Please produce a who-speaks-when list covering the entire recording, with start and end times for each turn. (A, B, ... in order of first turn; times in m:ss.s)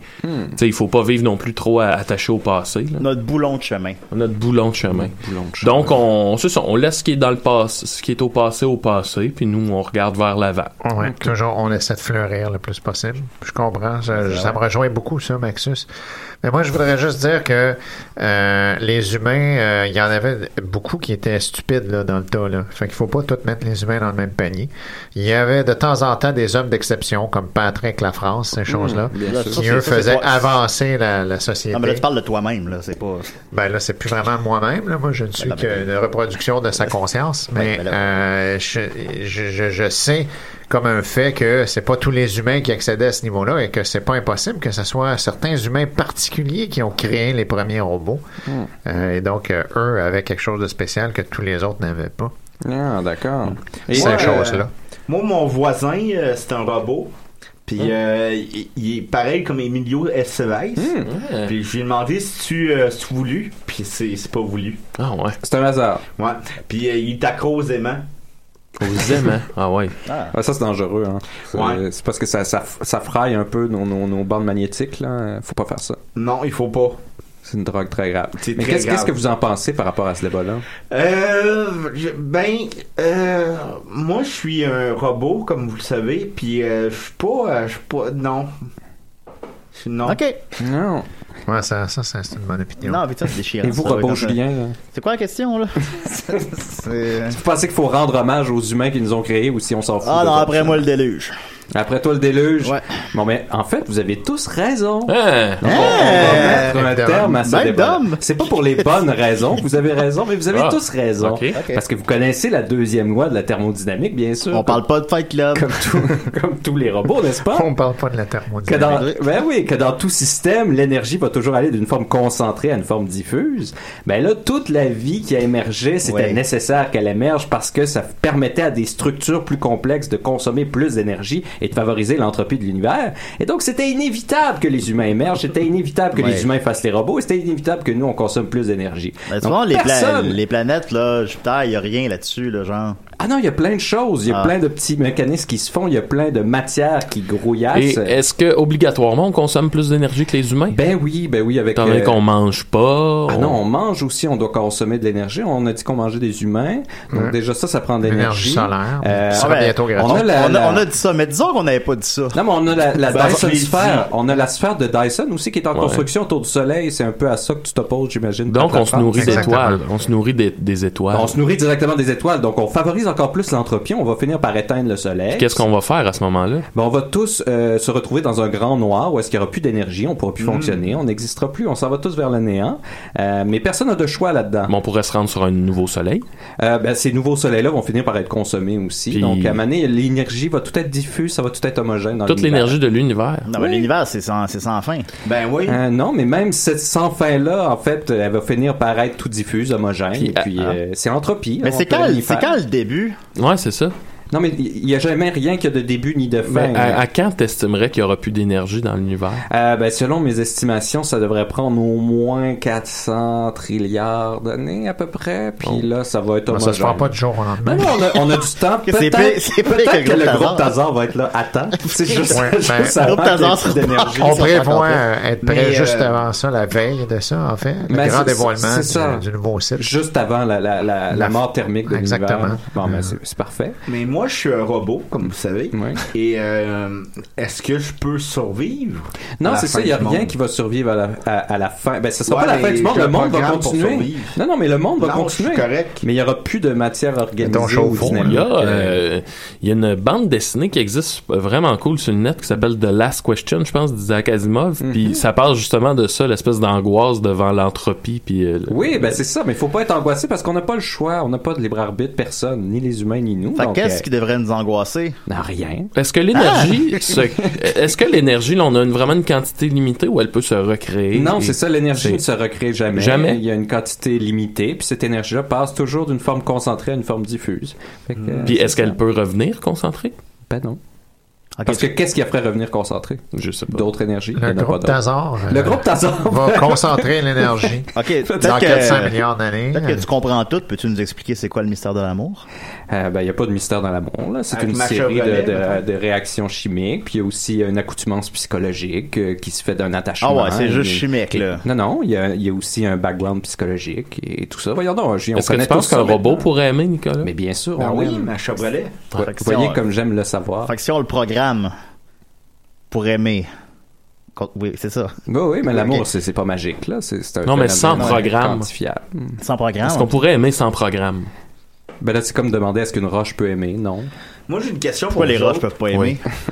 0:00.2-0:00.6 A
0:00.6-0:03.0 B
0:03.0-0:04.0 C
0:04.1-0:10.8 B
0:04.9-0:06.0 A
0:10.8-0:15.9 D
0:16.4-0:32.0 D
0:28.7-0:29.8 A
0:29.2-0:30.6 C
0:31.7-0:33.4 C
0:33.5-0:48.2 D
0:35.4-0:35.9 C
0:37.5-0:38.0 C
0:48.8-0:52.3 D
0:52.6-0:54.5 A
0:53.9-0:54.7 D
0:53.9-0:57.1 E
0:57.7-1:04.8 E
1:00.8-1:01.1 A
1:01.0-1:01.5 B
1:05.0-1:05.4 B
1:05.4-1:06.0 A
1:06.2-1:08.0 E
1:08.8-1:10.0 B
1:10.1-1:10.3 C
1:10.3-1:16.0 A
1:11.5-1:11.8 E
1:16.1-1:17.0 E
1:17.4-1:20.7 A
1:18.4-1:19.2 E
1:20.8-1:28.5 E
1:29.7-1:30.2 E
1:30.0-1:30.4 C
1:30.6-1:31.1 A
1:31.5-1:33.0 D
1:32.8-1:37.4 C
1:33.6-1:34.8 A
1:37.3-1:40.8 A
1:40.0-1:41.4 C
1:41.7-1:54.8 A
1:45.1-1:45.9 B
1:45.6-1:48.2 C
1:46.0-1:47.4 D
1:50.5-1:51.6 B
1:51.5-1:51.8 C
1:54.5-1:55.8 C
1:55.6-1:57.7 A
1:57.4-1:59.1 D
1:58.7-2:20.4 A
1:58.8-1:59.2 C
2:06.1-2:06.4 C
2:16.1-2:16.5 C
2:19.3-2:23.0 C
2:23.2-2:28.2 A
2:24.3-2:24.5 C
2:27.7-2:30.8 B
2:30.7-2:32.2 A
2:31.8-2:33.6 B
2:33.3-2:40.9 A
2:38.0-2:40.3 D
2:39.4-2:42.4 C
2:42.3-2:49.5 A
2:43.0-2:44.1 E
2:45.8-2:46.1 B
2:48.5-2:51.3 B
2:49.1-2:49.9 D
2:51.1-2:55.6 A
2:55.4-2:56.7 B
2:56.7-3:04.7 A
3:00.4-3:00.9 E
3:04.7-3:06.2 B
3:06.6-3:12.8 A
3:09.1-3:09.6 B
3:12.2-3:13.9 B
3:13.5-3:15.1 C
3:15.2-3:15.8 E
3:15.7-3:22.5 A
3:20.2-3:20.8 B
3:21.6-3:23.2 C
3:23.4-3:23.9 B
3:24.3-3:27.0 A
3:26.4-3:29.4 B
3:29.5-3:37.1 A
3:36.5-3:38.2 D
3:37.6-3:44.7 A
3:38.9-3:40.8 C
3:41.9-3:45.0 C
3:42.3-3:43.1 D
3:44.1-3:49.9 D
3:45.4-3:46.1 E
3:47.9-3:49.2 A
3:49.8-3:53.8 A
3:51.1-3:53.2 D
3:53.9-4:00.3 E
3:55.7-3:56.0 A
3:59.4-4:09.0 A
4:02.3-4:04.4 E
4:05.0-4:06.0 E
4:07.4-4:08.5 D
4:07.9-4:19.2 B
4:14.8-4:15.2 A
4:18.7-4:24.0 A
4:23.6-4:25.2 C
4:25.3-4:25.9 A
4:26.0-4:32.2 B
4:26.3-4:26.8 C
4:31.1-4:39.0 A
4:32.9-4:33.4 B
4:38.2-4:38.5 E
4:38.4-4:40.2 B
4:40.5-4:40.8 A
4:41.6-4:41.9 C
4:41.7-4:45.0 A
4:43.3-4:43.9 B
4:44.4-4:50.0 D
4:45.5-4:47.1 A
4:47.9-4:49.2 C
4:49.7-4:52.4 C
4:52.9-5:06.5 A
4:54.5-4:55.8 E
5:00.2-5:01.6 C
5:05.4-5:07.3 B
5:07.2-5:08.3 A
5:07.8-5:09.1 E
5:09.1-5:09.9 C
5:09.1-5:10.7 A
5:10.6-5:11.7 C
5:12.9-5:13.5 C
5:14.4-5:16.1 C
5:15.3-5:19.4 A
5:17.4-5:18.7 B
5:17.9-5:18.3 C
5:19.4-5:20.1 C
5:19.8-5:21.3 B
5:22.0-5:24.1 A
5:24.5-5:25.7 E
5:25.1-5:26.2 C